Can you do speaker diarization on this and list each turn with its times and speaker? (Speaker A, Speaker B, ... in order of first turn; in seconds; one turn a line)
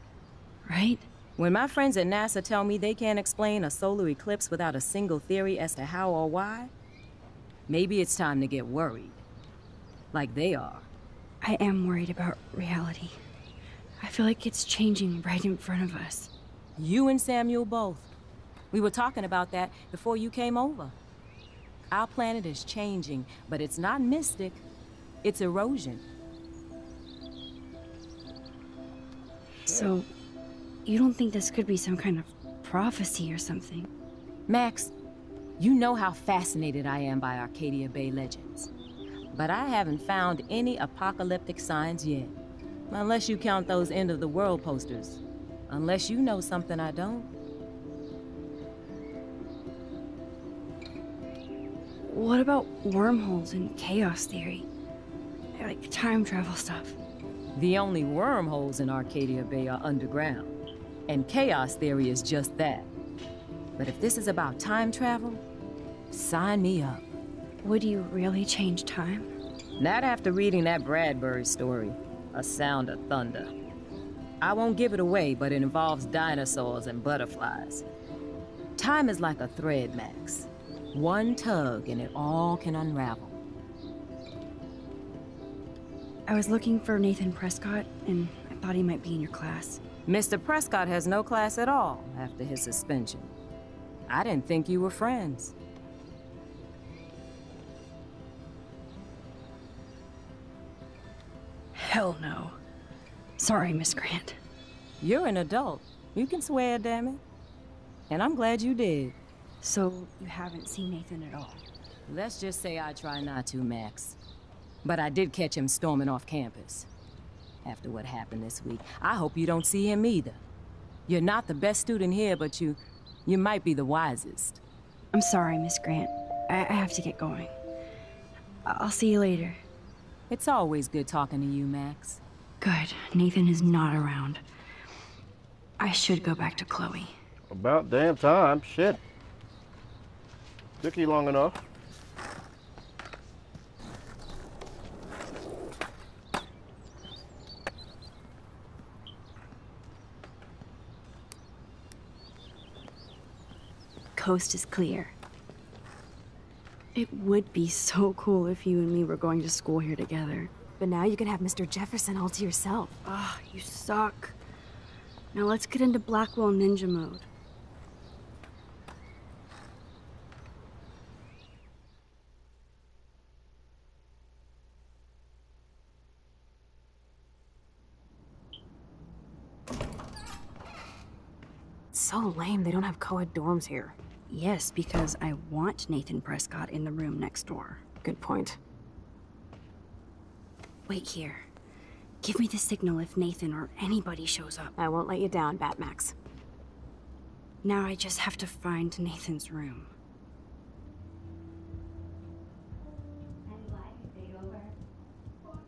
Speaker A: 0.7-1.1
Speaker B: 1.4-6.7
Speaker B: 7.7-9.2
Speaker B: 10.1-10.9
Speaker A: 11.4-13.2
Speaker A: 14.0-16.3
Speaker B: 16.8-18.1
Speaker B: 18.7-20.9
Speaker B: 21.9-24.6
Speaker B: 25.2-26.0
Speaker C: 29.7-29.9
Speaker A: 29.7-30.1
Speaker A: 30.9-33.9
Speaker B: 34.5-34.9
Speaker B: 35.6-38.7
Speaker B: 39.3-42.3
Speaker B: 42.9-47.3
Speaker A: 52.0-54.7
Speaker A: 55.5-57.0
Speaker B: 57.5-60.6
Speaker B: 61.1-62.9
Speaker B: 63.8-65.4
Speaker B: 66.1-67.0
Speaker A: 67.6-69.3
Speaker B: 69.8-73.5
Speaker B: 74.4-77.8
Speaker B: 78.8-83.3
Speaker A: 86.3-89.8
Speaker B: 90.1-93.3
Speaker B: 94.1-95.5
Speaker A: 101.7-102.6
Speaker A: 103.4-104.4
Speaker B: 105.0-107.2
Speaker B: 108.1-109.2
Speaker A: 109.6-111.6
Speaker B: 112.1-114.2
Speaker B: 114.8-116.9
Speaker B: 117.6-120.4
Speaker B: 121.1-124.6
Speaker A: 125.1-127.5
Speaker A: 128.6-129.6
Speaker B: 130.3-132.2
Speaker A: 132.6-134.4
Speaker A: 135.8-137.1
Speaker C: 137.5-139.0
Speaker C: 140.8-141.6
Speaker A: 154.2-155.1
Speaker A: 156.9-160.5
Speaker D: 160.8-162.9
Speaker A: 163.0-164.3
Speaker A: 165.3-167.3
Speaker D: 181.9-183.9
Speaker A: 184.3-187.8
Speaker D: 188.0-188.6
Speaker A: 190.9-191.4
Speaker A: 192.2-194.7
Speaker D: 194.8-196.1
Speaker A: 197.6-199.9